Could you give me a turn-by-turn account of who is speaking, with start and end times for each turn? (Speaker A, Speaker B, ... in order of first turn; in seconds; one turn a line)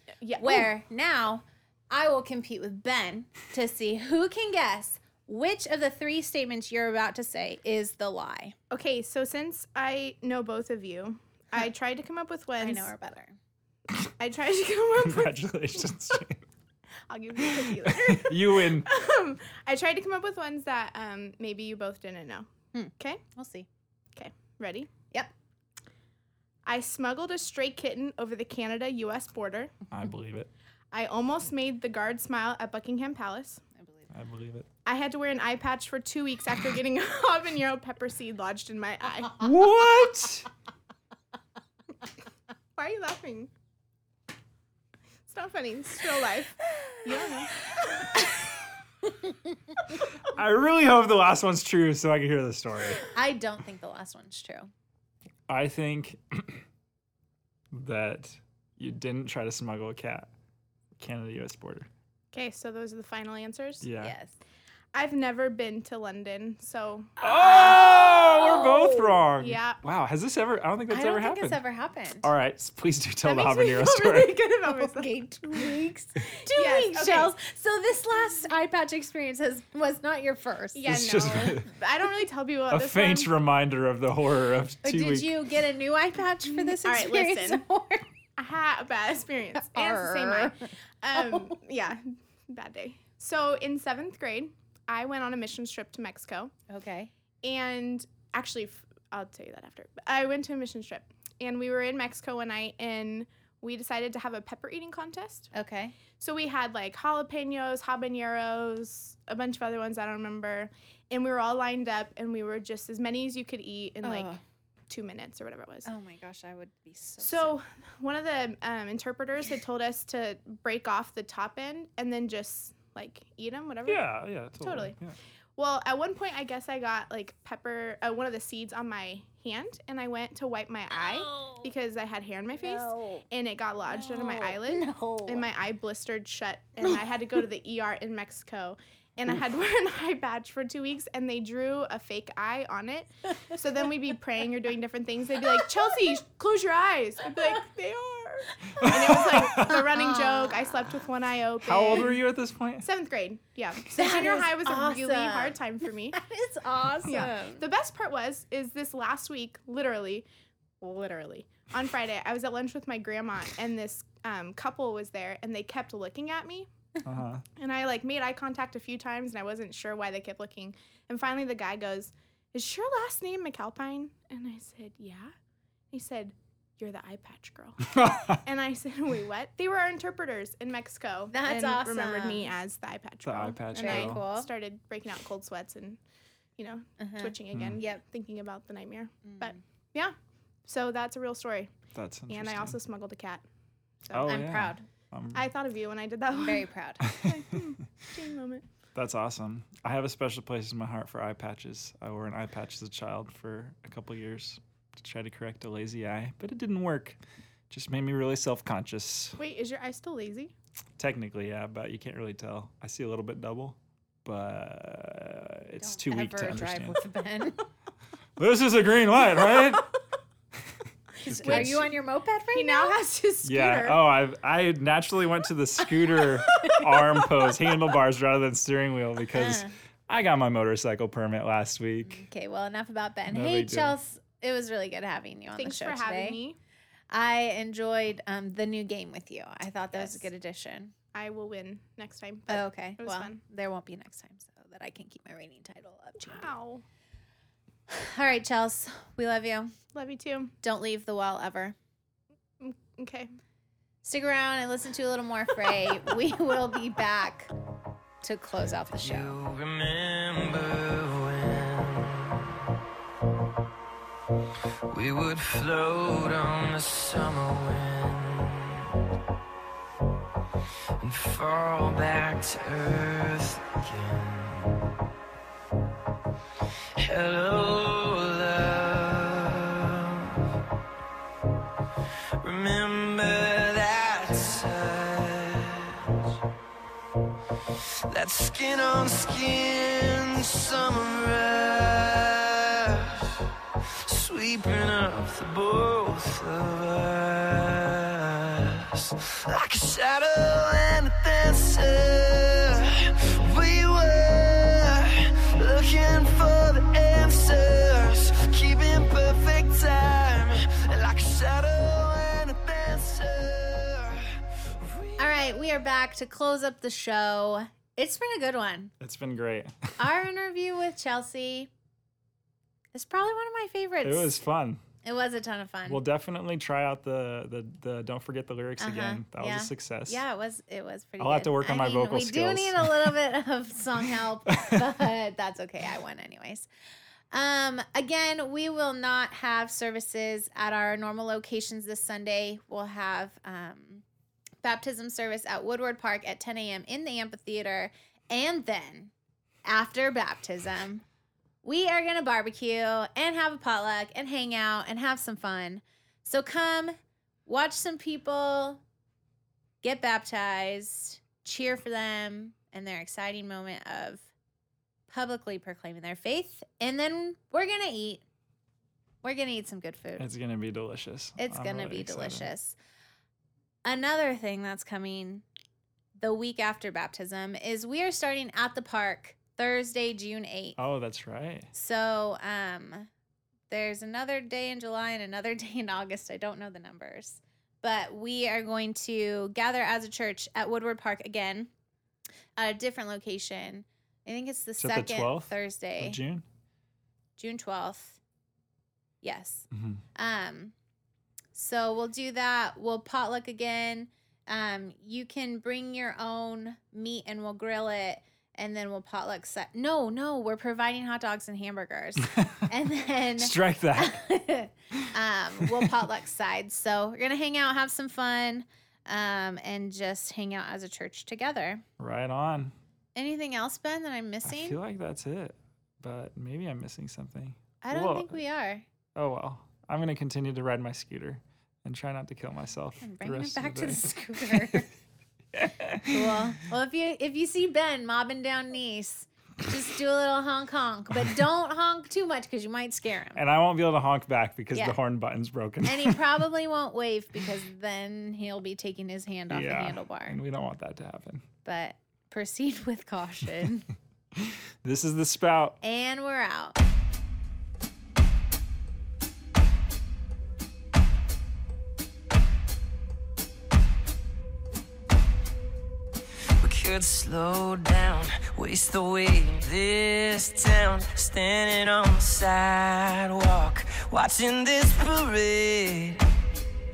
Speaker A: 0.2-0.7
Speaker B: 0.4-8.6
Speaker A: 8.7-12.9
Speaker B: 12.6-13.4
Speaker A: 14.2-15.5
Speaker C: 15.0-16.4
Speaker A: 17.1-22.5
Speaker C: 17.4-18.9
Speaker B: 22.7-23.7
Speaker A: 24.1-24.9
Speaker A: 26.6-29.7
Speaker C: 29.9-30.5
Speaker A: 30.9-33.6
Speaker B: 33.8-34.1
Speaker C: 34.1-34.7
Speaker A: 34.9-39.4
Speaker C: 39.4-40.5
Speaker A: 42.8-43.5
Speaker A: 45.3-47.6
Speaker C: 50.3-53.1
Speaker B: 53.1-54.7
Speaker C: 55.5-56.6
Speaker C: 57.7-60.3
Speaker C: 61.0-61.9
Speaker A: 62.3-63.8
Speaker C: 63.8-64.2
Speaker B: 64.0-64.3
Speaker A: 64.9-67.7
Speaker C: 67.2-71.6
Speaker B: 67.4-69.2
Speaker A: 69.4-69.8
Speaker B: 70.9-72.3
Speaker C: 72.2-74.4
Speaker A: 73.2-75.1
Speaker B: 74.6-81.0
Speaker A: 76.4-77.3
Speaker A: 80.8-83.3
Speaker C: 80.9-81.7
Speaker C: 82.7-85.3
Speaker B: 84.8-88.0
Speaker A: 86.5-87.6
Speaker A: 88.4-96.5
Speaker B: 89.5-90.5
Speaker B: 91.1-91.6
Speaker B: 96.7-97.1
Speaker A: 97.4-105.5
Speaker B: 105.5-106.0
Speaker A: 106.2-114.4
Speaker B: 114.0-114.4
Speaker A: 114.9-115.9
Speaker B: 115.8-117.6
Speaker A: 117.2-124.1
Speaker C: 123.9-125.2
Speaker A: 124.6-124.9
Speaker A: 125.6-152.2
Speaker B: 130.9-131.7
Speaker B: 132.6-133.2
Speaker B: 133.9-135.4
Speaker C: 148.8-149.9
Speaker B: 149.6-150.9
Speaker C: 151.6-152.9
Speaker A: 152.8-156.2
Speaker B: 153.9-155.6
Speaker B: 156.1-157.6
Speaker A: 157.1-160.3
Speaker A: 160.8-166.7
Speaker C: 167.1-167.4
Speaker A: 167.6-175.3
Speaker A: 175.9-186.0
Speaker C: 177.9-178.4
Speaker B: 181.3-182.5
Speaker C: 183.2-184.2
Speaker B: 183.7-184.5
Speaker A: 186.6-191.7
Speaker B: 187.0-188.0
Speaker C: 187.5-187.8
Speaker B: 189.3-189.6
Speaker C: 191.9-192.8
Speaker A: 192.3-193.4
Speaker A: 194.0-194.3
Speaker C: 194.1-195.5
Speaker B: 194.2-194.8
Speaker A: 195.3-196.7
Speaker B: 196.3-197.1
Speaker C: 197.0-197.6
Speaker A: 197.2-198.6
Speaker C: 198.9-207.2
Speaker C: 207.7-209.4
Speaker A: 209.4-210.5
Speaker C: 211.0-217.0
Speaker B: 215.8-217.7
Speaker C: 218.4-219.9
Speaker B: 221.2-223.0
Speaker C: 221.3-221.8
Speaker A: 221.3-221.9
Speaker A: 222.5-224.0
Speaker C: 223.4-232.2
Speaker B: 226.4-226.8
Speaker A: 226.6-226.8
Speaker B: 229.3-229.7
Speaker B: 232.1-236.4
Speaker C: 233.3-234.0
Speaker A: 235.6-236.6
Speaker B: 237.1-240.9
Speaker A: 239.9-240.3
Speaker A: 241.1-243.4
Speaker B: 242.5-246.5
Speaker A: 246.2-246.8
Speaker B: 247.9-249.7
Speaker A: 249.9-250.5
Speaker B: 250.6-251.8
Speaker A: 252.6-253.3
Speaker B: 254.0-257.5
Speaker B: 258.2-259.4
Speaker D: 259.0-262.5
Speaker D: 264.9-268.9
Speaker D: 271.0-274.9
Speaker D: 277.0-280.4
Speaker D: 282.4-286.1
Speaker D: 288.1-293.4
Speaker D: 294.0-315.7
Speaker B: 315.2-318.9
Speaker C: 319.0-319.9
Speaker B: 320.0-321.7
Speaker B: 322.9-324.4
Speaker C: 324.0-324.8
Speaker B: 325.0-326.0
Speaker C: 325.9-330.2
Speaker B: 328.8-336.7
Speaker C: 331.2-333.1
Speaker C: 334.5-334.8
Speaker B: 337.3-344.0
Speaker B: 344.6-349.1
Speaker B: 349.7-351.0
Speaker B: 351.6-358.8
Speaker B: 359.8-364.2
Speaker B: 365.1-368.2
Speaker B: 369.2-370.3
Speaker C: 370.2-372.5
Speaker B: 371.4-372.8
Speaker B: 373.9-375.4
Speaker B: 376.2-380.8
Speaker C: 380.8-381.7
Speaker B: 381.7-383.1
Speaker B: 383.7-391.7
Speaker B: 392.6-396.2
Speaker C: 394.8-396.4
Speaker B: 397.4-398.2
Speaker B: 399.2-400.7
Speaker C: 399.7-400.0
Speaker B: 401.5-421.8
Speaker C: 412.3-412.7
Speaker C: 413.4-414.2
Speaker C: 415.6-415.9
Speaker C: 422.0-422.7
Speaker B: 423.1-424.8
Speaker C: 424.4-428.4
Speaker B: 427.8-428.9
Speaker C: 429.1-434.8
Speaker B: 433.0-434.9
Speaker C: 435.6-436.4
Speaker B: 436.1-443.4
Speaker C: 443.4-446.2
Speaker B: 445.9-450.4
Speaker C: 449.5-451.4
Speaker B: 451.6-453.9
Speaker C: 454.4-455.8
Speaker B: 455.8-456.8
Speaker D: 466.6-476.2